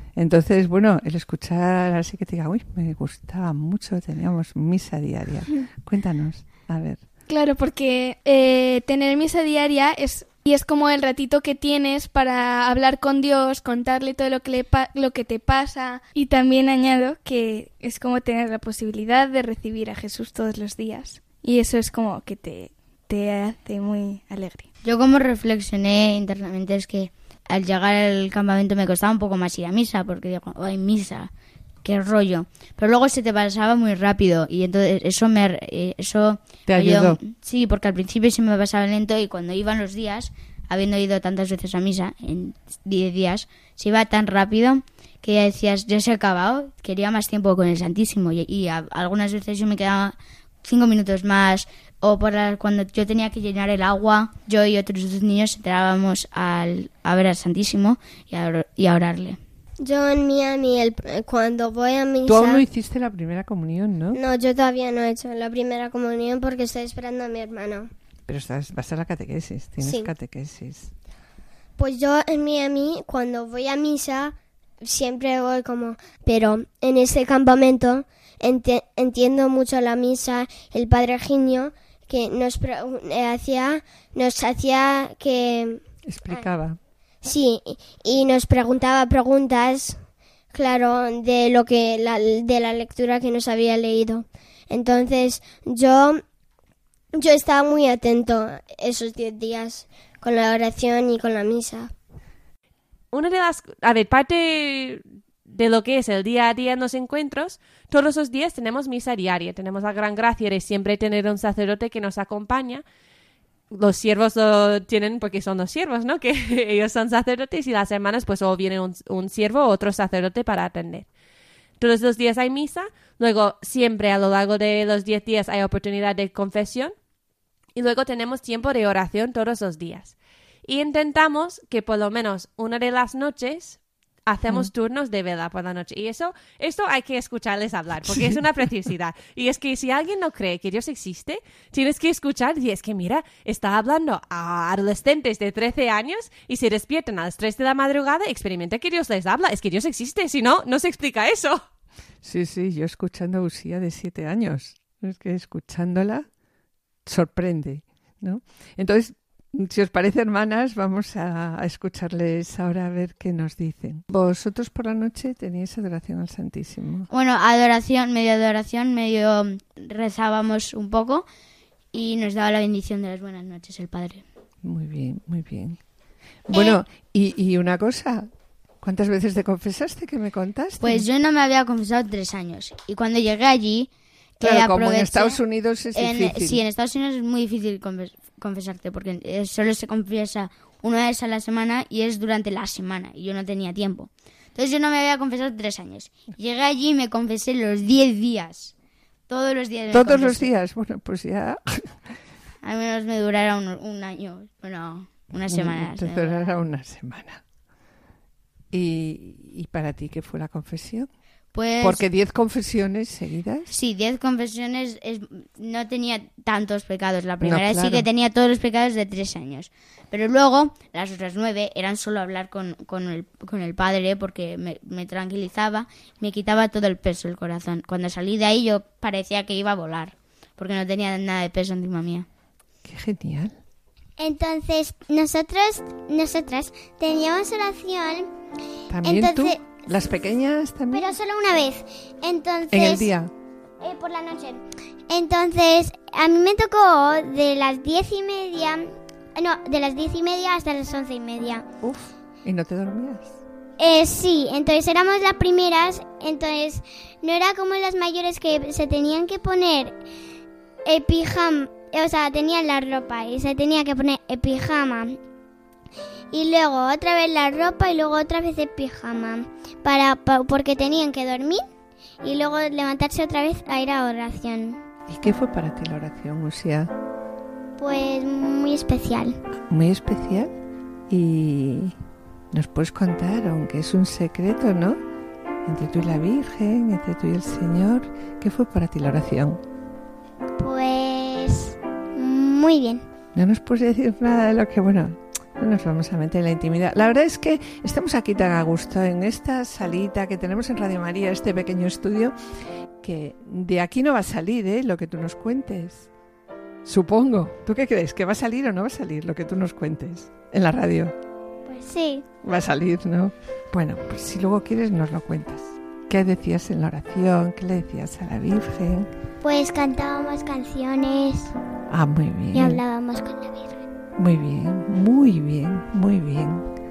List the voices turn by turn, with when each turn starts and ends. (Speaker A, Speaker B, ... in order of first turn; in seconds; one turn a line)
Speaker A: 0.1-7.0
Speaker B: 7.3-24.6
Speaker C: 24.8-31.3
Speaker C: 31.8-59.4
Speaker A: 36.7-37.2
Speaker D: 59.8-62.6
Speaker A: 62.2-64.2
Speaker D: 64.1-67.9
Speaker A: 68.3-70.9
Speaker D: 69.8-70.1
Speaker D: 71.8-86.4
Speaker A: 86.0-86.8
Speaker D: 87.2-90.0
Speaker D: 90.5-96.2
Speaker D: 97.2-101.9
Speaker E: 103.1-112.8
Speaker E: 113.7-121.0
Speaker E: 121.8-126.9
Speaker E: 127.7-151.6
Speaker A: 138.1-138.4
Speaker A: 152.2-156.2
Speaker A: 157.1-167.1
Speaker C: 167.1-171.2
Speaker C: 171.9-174.2
Speaker A: 174.6-175.8
Speaker A: 176.5-178.3
Speaker A: 178.8-181.1
Speaker C: 180.8-185.4
Speaker A: 184.4-186.6
Speaker C: 185.9-198.7
Speaker C: 199.3-200.5
Speaker A: 199.9-201.9
Speaker C: 202.6-206.5
Speaker A: 205.5-207.4
Speaker A: 208.7-211.1
Speaker C: 211.5-212.0
Speaker A: 211.8-213.7
Speaker C: 213.7-232.3
Speaker A: 217.4-218.1
Speaker A: 232.8-233.6
Speaker F: 234.2-238.3
Speaker A: 238.9-241.1
Speaker F: 239.0-239.7
Speaker F: 240.9-243.1
Speaker A: 242.7-243.3
Speaker F: 243.8-251.7
Speaker A: 251.8-253.3
Speaker F: 253.8-259.9
Speaker F: 260.8-265.2
Speaker F: 266.3-271.6
Speaker F: 272.2-274.8
Speaker A: 275.1-276.9
Speaker F: 277.8-279.4
Speaker A: 279.7-280.5
Speaker A: 281.1-281.9
Speaker A: 282.5-285.0
Speaker A: 285.6-289.6
Speaker F: 290.6-293.0
Speaker A: 293.3-302.3
Speaker A: 303.0-306.1
Speaker A: 306.8-311.1
Speaker F: 311.7-312.2
Speaker A: 312.4-319.1
Speaker F: 319.4-321.5
Speaker A: 321.9-322.8
Speaker F: 322.5-323.8
Speaker A: 324.2-326.6